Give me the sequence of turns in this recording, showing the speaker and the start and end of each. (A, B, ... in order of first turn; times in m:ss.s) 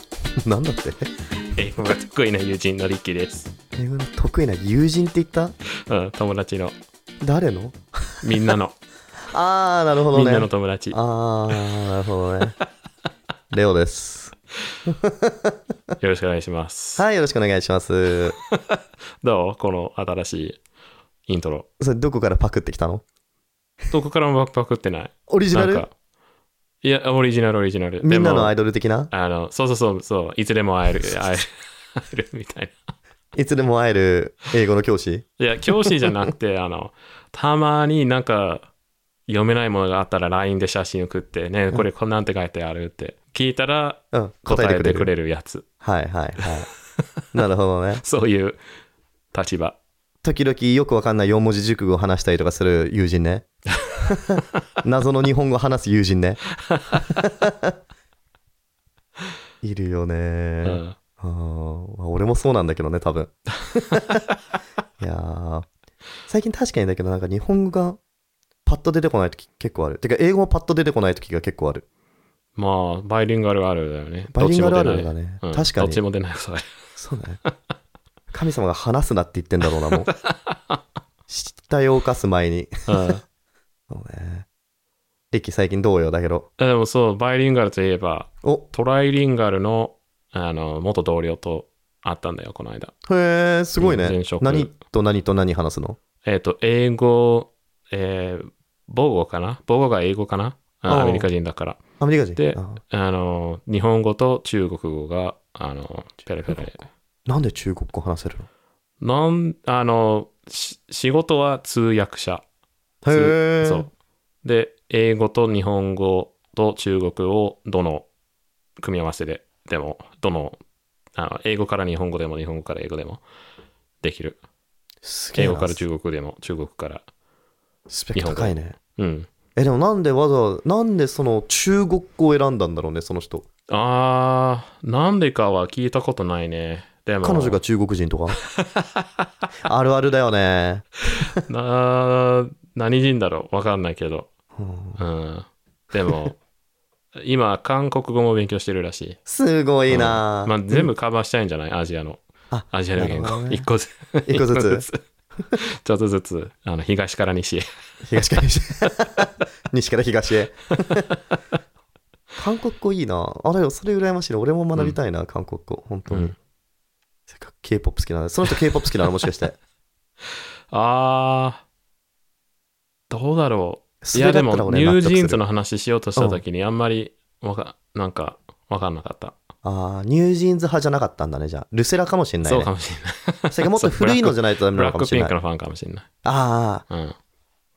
0:00.4-0:01.1 A
0:01.6-0:03.5 B
0:03.8-0:05.5 A
0:05.9-0:06.8 B
0:07.2-0:08.2 A
0:08.2-0:08.8 B
0:09.3-0:12.6 A
0:10.1-0:11.0 B
0:13.5-0:14.3 A
0:14.9-0:15.5 A
0:16.0-0:17.0 B
0:17.0-0:18.4 A
0:18.6-0:20.6 B
0:21.3-0:21.7 B
0:21.8-0:23.0 A
0:23.9-0:25.9 B
0:25.3-0:25.9 A
0:26.8-0:28.5 B
0:28.0-0:29.1 A
0:29.1-0:32.8 B
0:33.3-0:35.4 A
0:35.4-0:38.7 B
0:39.3-0:45.6 B
0:44.1-0:45.1 A
0:45.8-0:46.7 A
0:47.3-0:48.0 A
0:48.0-0:48.6 B
0:49.3-0:49.8 B
0:50.2-0:53.4 A
0:54.0-0:56.4 A
0:56.7-0:57.0 B
0:57.0-0:57.7 A
0:59.6-1:04.1 A
1:00.6-1:01.0 B
1:05.0-1:05.7 A
1:06.3-1:08.0 A
1:08.7-1:11.8 A
1:12.6-1:16.7 B
1:14.3-1:16.0 A
1:17.0-1:17.4 A
1:18.3-1:20.1 A
1:20.1-1:20.8 B
1:21.3-1:23.1 A
1:22.9-1:23.2 B
1:23.9-1:24.5 A
1:25.3-1:26.5 A
1:26.6-1:32.9 B
1:33.1-1:36.0 A
1:33.8-1:34.7 B
1:36.2-1:41.8 B
1:40.9-1:41.3 A
1:42.0-1:42.8 A
1:42.4-1:46.8 B
1:47.3-1:48.5 A
1:49.0-1:52.4 B
1:53.0-1:53.9 A
1:53.1-1:53.9 B
1:54.4-1:58.1 B
1:58.8-2:00.6 B
2:01.2-2:03.2 B
2:04.0-2:04.4 B
2:05.0-2:05.8 A
2:05.4-2:07.1 B
2:07.9-2:08.8 A
2:08.2-2:09.3 B
2:09.6-2:13.5 A
2:13.7-2:17.6 B
2:17.2-2:18.4 A
2:18.6-2:19.0 B
2:19.6-2:21.4 A
2:21.5-2:24.3 B
2:24.6-2:25.0 A
2:25.0-2:26.4 B
2:27.2-2:29.2 B
2:29.2-2:30.9 A
2:29.9-2:35.0 B
2:32.5-2:33.7 A
2:34.2-2:34.9 A
2:35.5-2:37.6 B
2:38.1-2:41.1 A
2:42.4-2:46.3 A
2:46.1-2:46.3 B
2:47.3-2:49.6 A
2:50.7-2:51.6 B
2:53.1-2:59.4 B
2:54.0-2:55.4 A
2:56.2-2:56.4 A
2:59.6-3:02.7 A
3:02.4-3:06.0 B
3:03.5-3:05.4 A
3:06.2-3:06.8 A
3:06.9-3:07.2 B